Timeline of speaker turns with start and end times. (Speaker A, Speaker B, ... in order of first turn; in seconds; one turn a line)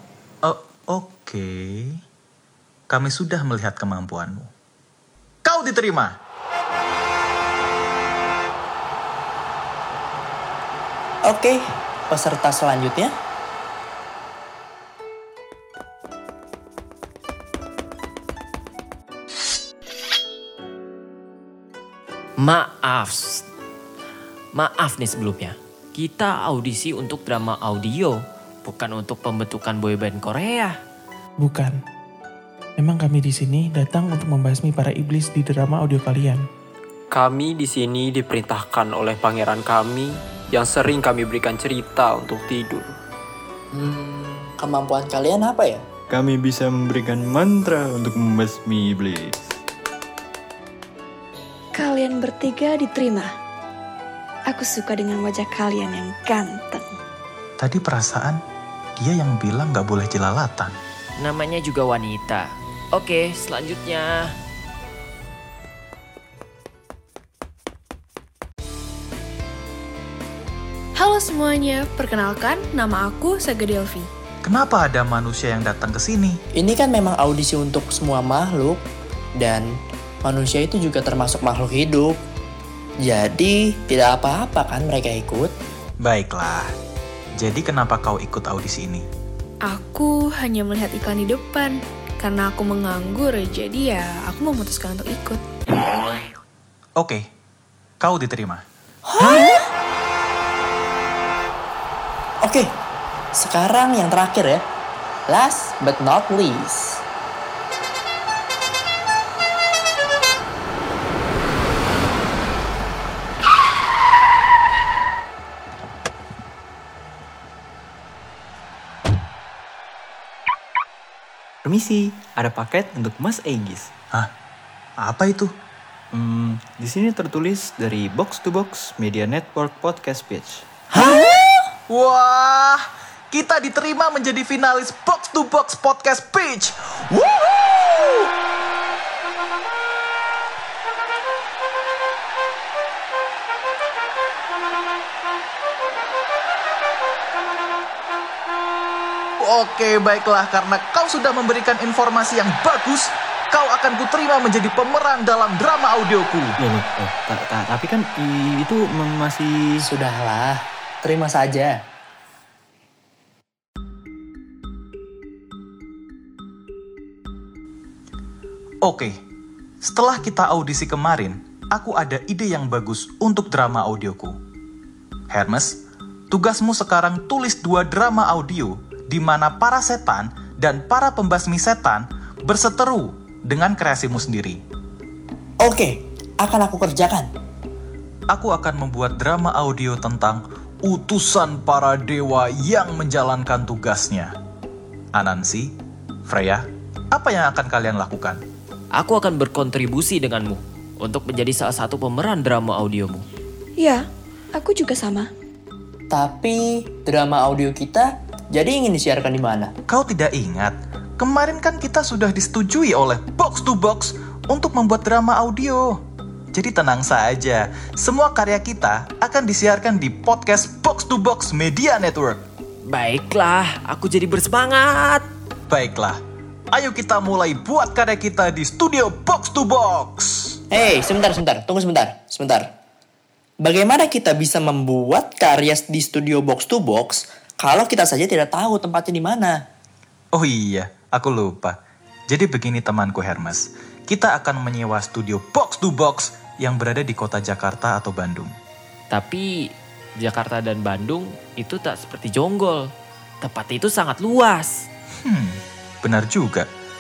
Speaker A: 0.4-2.0
Speaker A: 2.9-4.5
Speaker A: 5.5-6.2
Speaker B: 11.3-13.1
Speaker C: 22.4-23.4
Speaker C: 24.6-30.8
Speaker D: 31.4-31.8
Speaker D: 32.8-36.4
Speaker E: 37.1-43.0
Speaker B: 43.7-45.8
Speaker F: 46.1-49.4
Speaker G: 51.8-53.3
Speaker G: 54.5-56.9
Speaker A: 57.6-58.4
Speaker A: 59.0-60.7
Speaker C: 61.2-64.3
Speaker H: 71.0-74.1
Speaker A: 74.4-76.4
Speaker B: 76.6-78.8
Speaker B: 79.4-79.7
Speaker B: 80.2-82.1
Speaker B: 83.0-85.5
Speaker A: 86.0-86.7
Speaker A: 87.4-89.0
Speaker H: 89.6-95.4
Speaker A: 98.0-98.6
Speaker B: 99.1-99.6
Speaker B: 102.4-102.7
Speaker B: 103.4-104.6
Speaker B: 105.3-107.0
Speaker F: 121.6-123.9
Speaker A: 125.0-125.5
Speaker F: 126.1-130.6
Speaker A: 131.9-138.3
Speaker A: 149.4-156.6
Speaker F: 156.6-159.9
Speaker B: 159.8-161.8
Speaker A: 168.8-169.1
Speaker A: 169.8-174.3
Speaker A: 175.3-175.8
Speaker A: 176.3-184.6
Speaker B: 185.6-187.3
Speaker A: 188.3-194.3
Speaker A: 195.2-195.7
Speaker A: 196.3-198.4
Speaker C: 199.0-203.2
Speaker G: 203.8-204.0
Speaker G: 204.5-205.3
Speaker B: 206.1-209.7
Speaker A: 209.9-216.0
Speaker A: 216.5-222.4
Speaker C: 222.9-225.2
Speaker A: 225.7-226.2
Speaker A: 226.7-230.6
Speaker B: 230.7-232.7
Speaker B: 233.6-239.6
Speaker A: 240.3-241.8
Speaker A: 242.3-248.5
Speaker C: 249.1-249.5
Speaker C: 250.2-252.8
Speaker C: 253.4-254.7
Speaker A: 255.2-256.7